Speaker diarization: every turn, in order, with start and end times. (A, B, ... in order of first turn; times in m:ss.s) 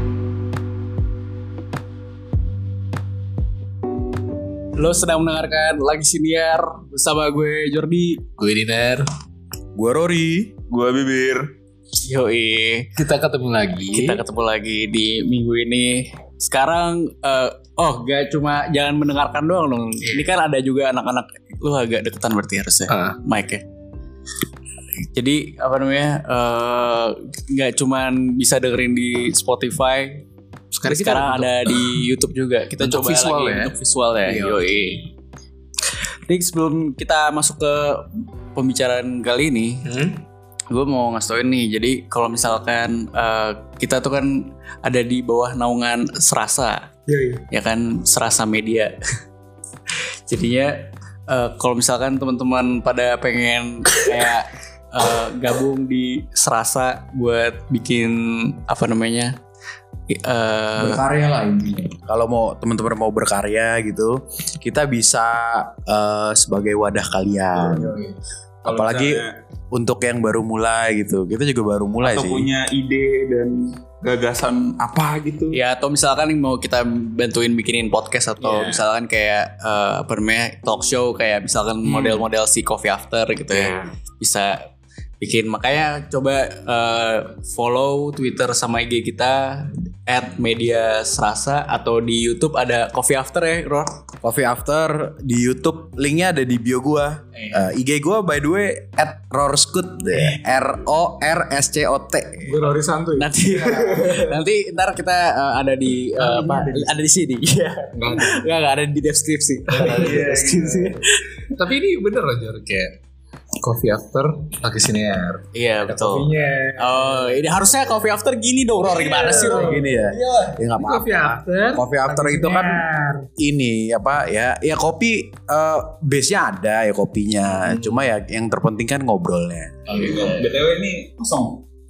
0:04.8-0:08.2 A
0:08.4-0:09.1 B
0:09.7-0:10.5 C
0:10.7-0:11.5 D
0:12.0-0:12.9 A
0:13.0-0:14.2 B
0:13.9-0:23.6 A
0:22.9-0:23.2 B
0:25.1-0:30.2 A
0:30.7-0:32.0 B
0:30.8-0:35.0 A
0:32.8-0:33.7 B
0:34.2-0:34.6 B
0:36.3-0:39.8 A
0:39.8-0:40.2 B
0:40.7-0:46.9 A
0:47.1-0:47.4 B
0:47.5-0:48.9 A
0:50.3-0:59.4 A
1:00.1-1:01.0 A
1:00.8-1:08.0 C
1:08.6-1:09.4 D
1:08.6-1:12.5 C
1:12.0-1:15.6 D
1:15.5-1:24.7 A
1:21.8-1:22.2 C
1:25.2-1:34.0 A
1:34.2-1:42.7 C
1:42.4-1:44.4 B
1:43.2-1:51.4 A
1:46.1-1:46.9 B
1:47.9-1:48.4 B
1:49.7-1:50.9 B
1:50.0-1:50.7 C
1:51.5-1:52.9 B
1:53.6-1:57.4 B
1:55.5-1:59.8 A
1:58.8-2:03.3 B
1:59.3-2:02.8 C
2:03.4-2:10.0 C
2:07.5-2:08.0 B
2:09.9-2:10.5 B
2:09.9-2:11.6 D